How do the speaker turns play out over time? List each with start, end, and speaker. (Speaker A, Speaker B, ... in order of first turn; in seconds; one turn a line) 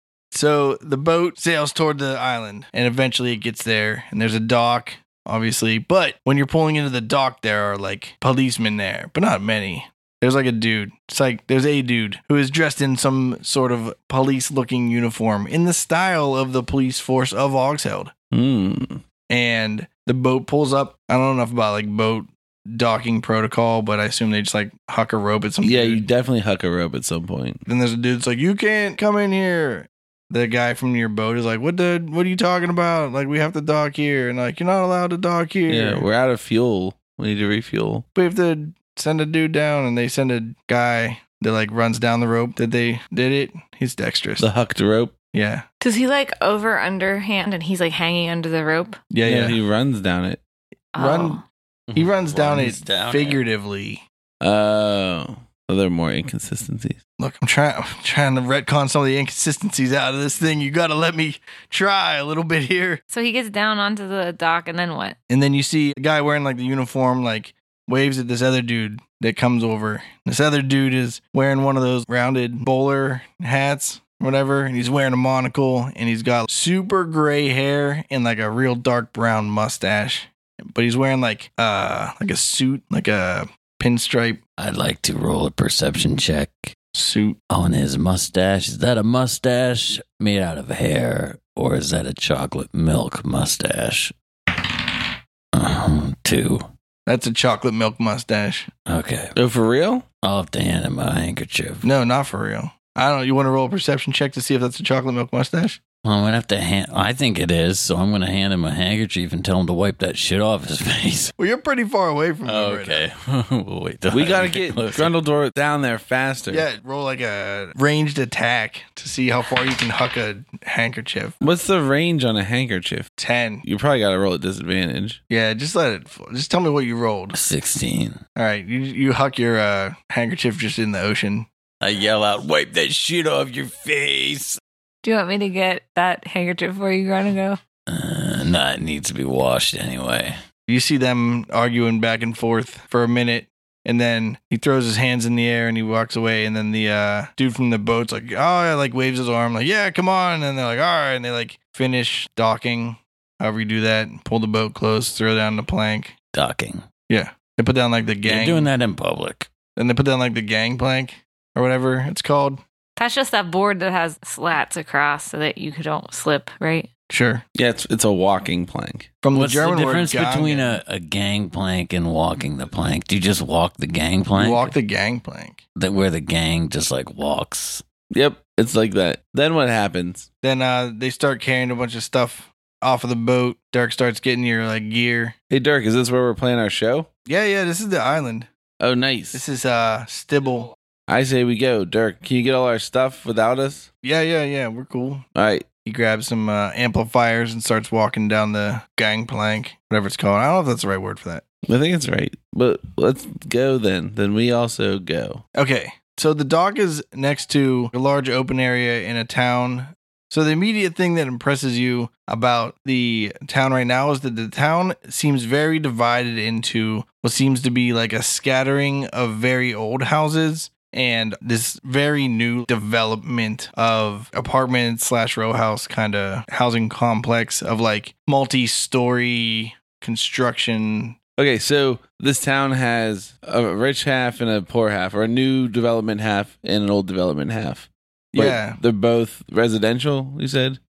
Speaker A: 0.3-18.1
Speaker B: 18.3-19.0
Speaker A: 19.3-26.0
Speaker B: 25.6-27.6
Speaker A: 27.6-36.0
Speaker B: 35.7-38.0
Speaker A: 38.1-44.5
Speaker B: 44.4-45.1
Speaker A: 45.3-45.6
Speaker C: 45.8-49.0
Speaker A: 49.1-49.6
Speaker B: 49.2-50.4
Speaker C: 50.9-51.4
Speaker A: 51.0-51.4
Speaker D: 51.9-53.4
Speaker A: 51.9-54.0
Speaker B: 54.4-57.0
Speaker A: 57.2-63.0
Speaker C: 63.1-65.2
Speaker A: 65.3-84.4
Speaker D: 84.6-86.7
Speaker A: 86.9-87.4
Speaker D: 87.5-96.7
Speaker A: 97.0-98.7
Speaker D: 98.9-99.3
Speaker B: 99.3-100.0
Speaker D: 100.2-101.9
Speaker A: 101.8-105.8
Speaker D: 106.0-111.3
Speaker A: 111.4-113.0
Speaker D: 112.4-115.2
Speaker B: 114.1-116.7
Speaker A: 116.5-121.3
Speaker B: 121.4-123.1
Speaker A: 123.2-123.6
Speaker B: 123.6-125.2
Speaker A: 125.3-127.4
Speaker D: 127.3-128.2
Speaker A: 128.3-131.5
Speaker D: 131.8-134.6
Speaker C: 135.0-137.6
Speaker D: 137.9-140.4
Speaker A: 140.7-156.1
Speaker D: 156.3-156.8
Speaker A: 157.1-158.7
Speaker D: 158.2-159.5
Speaker A: 159.8-162.6
Speaker C: 163.0-166.9
Speaker A: 167.1-167.4
Speaker B: 167.6-169.1
Speaker A: 169.2-170.8
Speaker D: 169.3-174.7
Speaker A: 174.3-175.6
Speaker D: 175.8-177.8
Speaker B: 178.1-180.3
Speaker A: 180.4-185.3
Speaker B: 185.5-187.1
Speaker A: 187.2-188.5
Speaker B: 188.8-189.4
Speaker A: 189.3-190.7
Speaker B: 191.1-193.9
Speaker A: 194.0-195.2
Speaker B: 195.3-195.6
Speaker A: 195.8-201.4
Speaker B: 201.7-205.4
Speaker A: 205.5-231.2
Speaker B: 231.4-240.8
Speaker A: 238.3-238.8